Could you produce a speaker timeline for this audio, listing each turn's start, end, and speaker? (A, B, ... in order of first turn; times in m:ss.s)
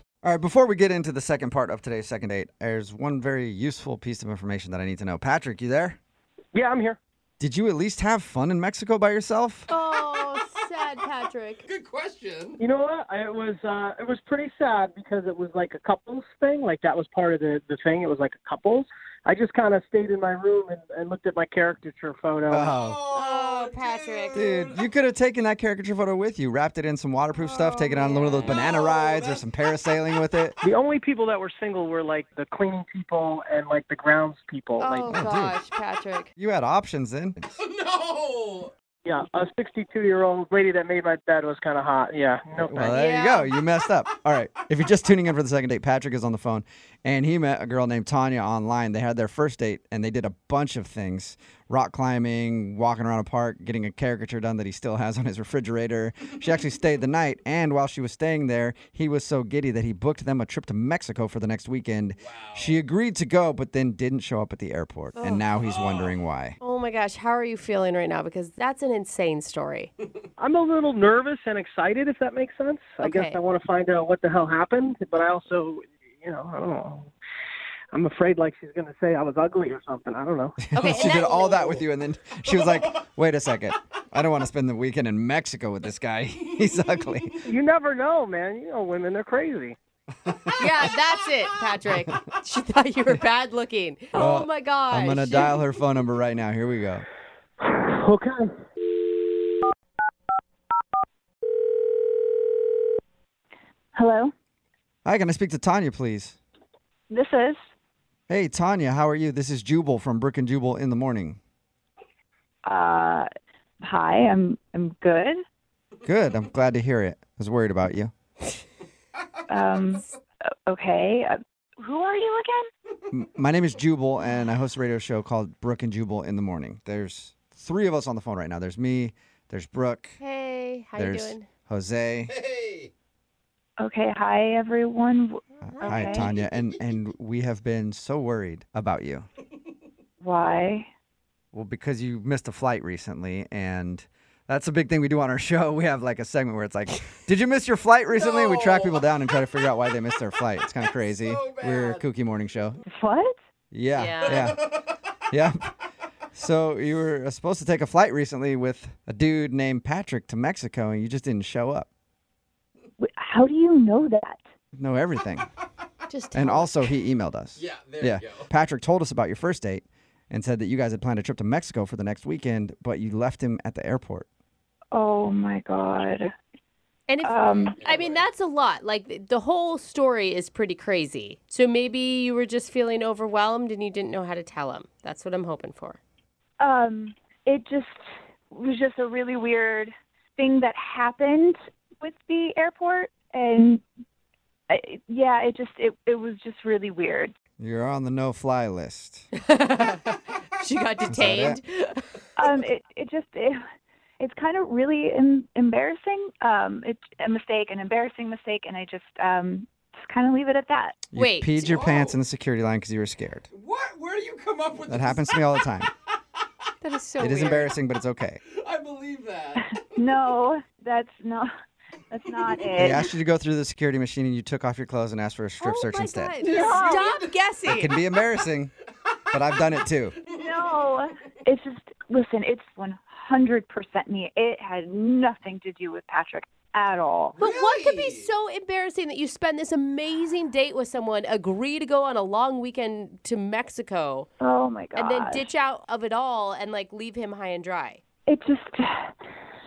0:00.2-0:06.0 A
0:06.5-0:07.0 B
0:07.4-0:09.7 A
0:09.7-0:11.6 C
0:11.6-0:12.6 D
0:12.6-0:22.7 B
0:22.5-0:23.0 A
0:22.6-0:24.8 D
0:23.1-0:24.4 C
0:24.3-0:30.6 A
0:27.8-0:28.5 C
0:28.2-0:29.4 D
0:30.6-0:35.1 B
0:34.8-0:36.3 C
0:35.1-0:35.5 A
0:36.4-0:37.4 A
0:37.6-0:38.7 D
0:39.0-0:42.9 B
0:42.7-1:06.6 A
0:42.9-0:43.5 C
1:02.2-1:02.8 D
1:05.2-1:05.4 C
1:05.6-1:06.1 D
1:06.6-1:09.9 C
1:10.4-1:17.1 B
1:13.0-1:13.4 C
1:17.9-1:20.6 B
1:20.7-1:27.4 A
1:20.7-1:21.8 C
1:27.4-1:29.8 B
1:30.6-1:35.6 C
1:34.1-1:37.0 A
1:37.6-1:38.5 B
1:44.0-1:44.3 E
1:45.0-1:46.4 A
1:47.1-1:47.6 E
1:48.3-1:51.4 A
1:52.6-1:53.3 E
1:53.8-1:55.4 E
1:56.0-1:58.1 A
1:59.5-2:00.0 E
2:00.7-2:02.6 E
2:03.1-2:10.2 A
2:10.2-2:11.5 C
2:11.0-2:12.3 A
2:12.3-2:12.9 D
2:13.8-2:16.3 E
2:15.6-2:16.2 C
2:15.6-2:19.2 A
2:20.2-2:20.9 E
2:21.5-2:32.8 A
2:28.2-2:29.0 D
2:31.1-2:32.0 D
2:32.8-2:33.4 E
2:33.7-2:34.6 A
2:33.9-2:34.5 C
2:34.3-2:34.6 D
2:35.3-2:35.6 A
2:36.3-2:41.9 A
2:43.0-2:44.4 E
2:44.8-2:45.5 A
2:46.1-2:46.9 C
2:46.3-2:54.2 A
2:47.6-2:48.5 D
2:54.9-2:56.3 E
2:57.1-3:06.0 C
2:57.2-2:57.8 E
2:57.4-2:58.3 D
3:06.6-3:08.0 E
3:08.5-3:13.8 E
3:14.7-3:17.3 E
3:17.6-3:19.3 A
3:19.4-3:22.0 C
3:21.1-3:21.6 A
3:22.4-3:23.6 E
3:24.2-3:31.0 E
3:31.1-3:33.4 A
3:31.1-3:31.5 C
3:31.6-3:32.2 D
3:33.5-3:35.4 D
3:34.9-3:35.9 A
3:36.8-3:37.7 C
3:37.2-3:38.4 A
3:38.5-3:39.8 D
3:39.9-3:41.5 E
3:42.1-3:43.1 E
3:42.8-3:46.3 A
3:45.6-3:47.9 C
3:46.4-3:47.2 E
3:46.6-3:47.1 D
3:47.6-3:48.7 A
3:49.3-3:50.1 A
3:50.4-3:57.4 E
3:57.4-3:58.3 D
3:57.4-4:04.3 C
4:04.4-4:05.5 E
4:04.9-4:08.0 C
4:08.3-4:09.1 E